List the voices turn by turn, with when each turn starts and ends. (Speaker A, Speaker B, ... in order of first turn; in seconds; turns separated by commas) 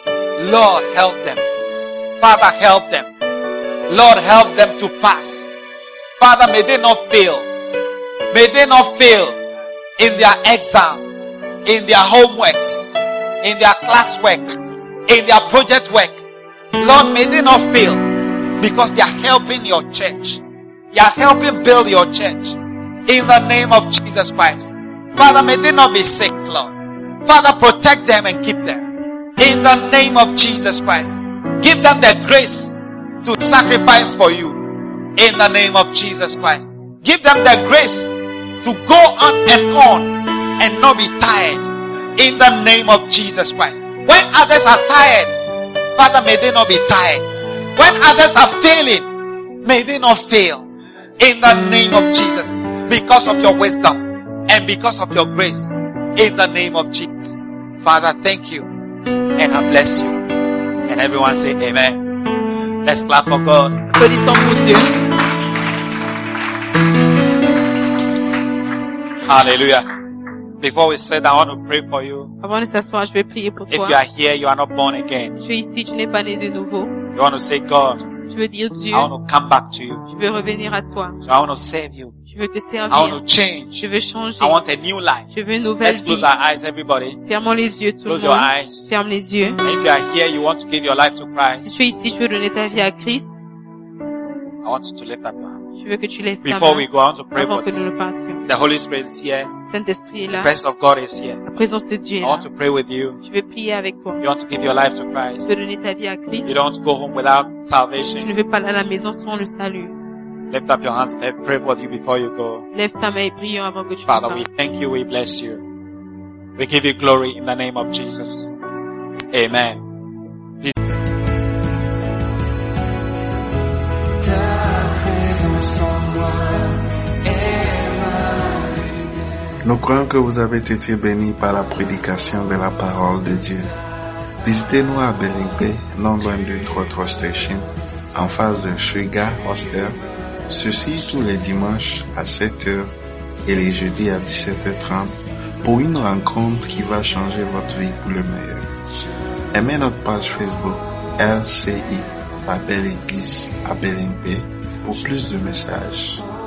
Speaker A: 0.4-1.4, Speaker A: 2.2-3.1, Speaker A: 3.9-5.5, Speaker A: 6.2-7.5, Speaker A: 8.3-9.4, Speaker A: 10.0-11.0, Speaker A: 11.6-14.5, Speaker A: 15.1-16.2, Speaker A: 16.8-18.0, Speaker A: 18.6-20.4, Speaker A: 20.9-26.7, Speaker A: 27.2-28.9, Speaker A: 29.4-34.6, Speaker A: 35.1-38.1, Speaker A: 38.6-45.4, Speaker A: 45.9-47.2, Speaker A: 47.8-49.1, Speaker A: 49.6-50.6, Speaker A: 51.2-58.7, Speaker A: 59.4-60.2, Speaker A: 60.9-62.0, Speaker A: 62.8-63.8, Speaker B: 63.9-64.9, Speaker A: 69.3-69.8, Speaker A: 70.6-72.3, Speaker B: 72.4-74.0, Speaker A: 73.7-75.3, Speaker B: 75.4-76.9, Speaker A: 77.1-78.0, Speaker B: 78.3-79.1, Speaker A: 78.9-80.0, Speaker B: 80.1-81.2, Speaker A: 81.3-82.1, Speaker B: 82.3-83.2, Speaker A: 82.9-83.8, Speaker B: 83.8-84.6, Speaker A: 84.4-85.3, Speaker B: 85.3-86.3, Speaker A: 85.8-87.2, Speaker B: 87.2-89.6, Speaker A: 88.1-88.9, Speaker A: 89.6-91.6, Speaker B: 91.6-93.3, Speaker A: 94.6-95.6, Speaker B: 95.8-98.5, Speaker A: 96.4-97.7, Speaker A: 98.5-99.5, Speaker B: 99.6-100.5, Speaker A: 100.3-101.4, Speaker B: 101.4-102.5, Speaker A: 102.2-103.2, Speaker B: 103.2-104.2, Speaker A: 104.2-105.5, Speaker B: 105.5-106.5, Speaker A: 106.5-108.3, Speaker B: 108.2-109.9, Speaker A: 110.5-112.6, Speaker B: 112.7-114.4, Speaker A: 114.1-115.6, Speaker A: 116.6-118.5, Speaker A: 119.3-119.8, Speaker C: 129.6-133.7, Speaker C: 134.4-142.9, Speaker C: 143.4-148.7, Speaker C: 149.5-156.3